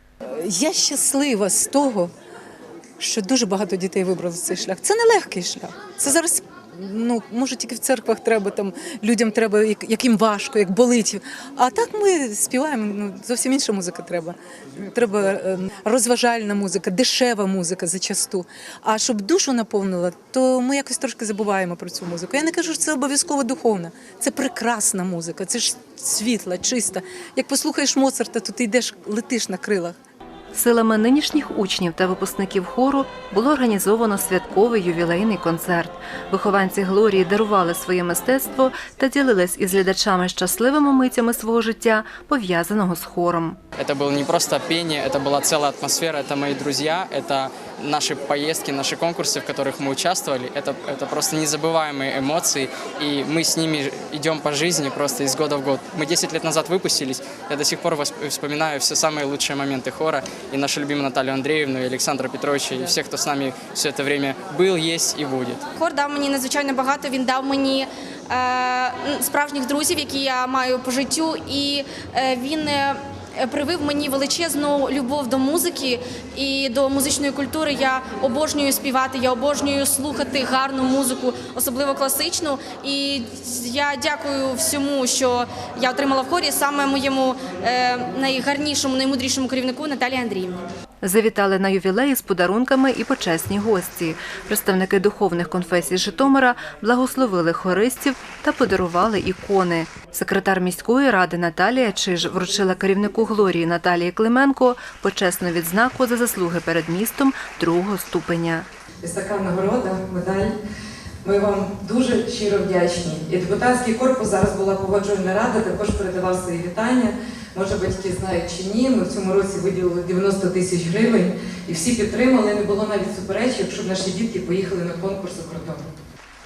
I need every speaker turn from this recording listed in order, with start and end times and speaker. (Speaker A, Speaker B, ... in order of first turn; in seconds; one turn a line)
Speaker A: 0.3-2.1
Speaker A: 3.0-30.0
Speaker B: 30.5-43.6
Speaker C: 43.8-65.6
Speaker D: 65.8-90.6
Speaker B: 91.0-108.7
Speaker E: 109.0-110.5
Speaker E: 111.2-125.8